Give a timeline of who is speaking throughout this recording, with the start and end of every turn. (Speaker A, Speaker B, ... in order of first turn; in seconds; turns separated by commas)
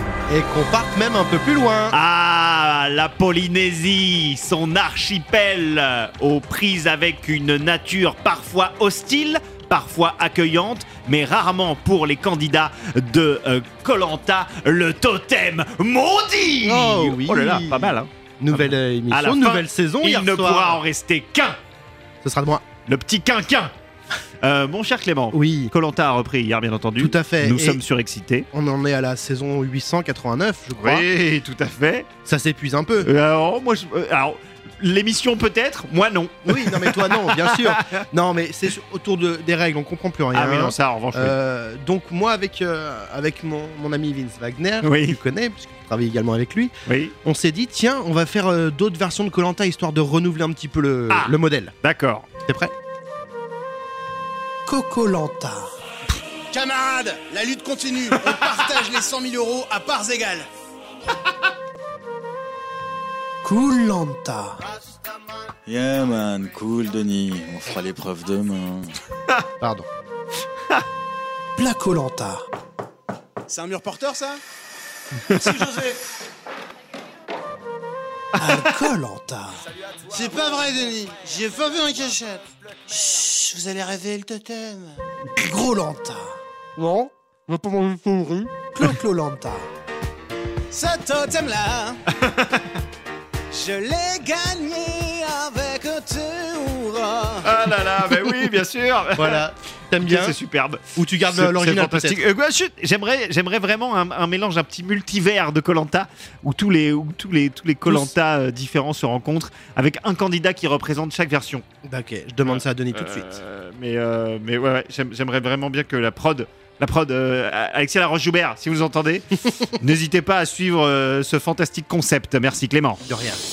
Speaker A: 0.3-2.0, Speaker B: 1.9-21.6, Speaker A: 16.6-20.8, Speaker A: 22.2-22.6, Speaker B: 22.9-23.7, Speaker B: 24.4-28.4, Speaker A: 25.3-25.7, Speaker A: 27.0-27.8, Speaker A: 28.5-31.1, Speaker B: 30.8-32.1, Speaker A: 32.2-33.1, Speaker B: 33.0-38.0, Speaker A: 36.5-46.7, Speaker B: 40.3-41.4, Speaker B: 44.8-45.2, Speaker B: 46.9-47.1, Speaker A: 47.2-51.7, Speaker B: 51.8-52.3, Speaker A: 52.5-52.7, Speaker C: 54.7-55.6, Speaker D: 56.5-60.5, Speaker C: 63.4-64.6, Speaker E: 65.7-68.9, Speaker A: 69.6-69.9, Speaker C: 71.6-72.4, Speaker D: 73.5-74.4, Speaker B: 75.3-75.6, Speaker D: 75.5-76.0, Speaker B: 78.4-78.8, Speaker A: 78.4-78.9, Speaker C: 79.0-79.5, Speaker D: 80.1-82.4, Speaker D: 82.9-84.9, Speaker C: 83.2-83.5, Speaker C: 85.3-86.4, Speaker A: 86.8-88.9, Speaker C: 88.8-89.6, Speaker D: 90.7-92.0, Speaker B: 92.2-92.6, Speaker D: 93.5-97.5, Speaker B: 97.4-99.4, Speaker A: 99.1-100.4, Speaker B: 100.0-111.6, Speaker A: 100.9-102.2, Speaker A: 111.8-113.3, Speaker B: 112.5-119.3, Speaker B: 119.8-123.0, Speaker A: 123.0-123.4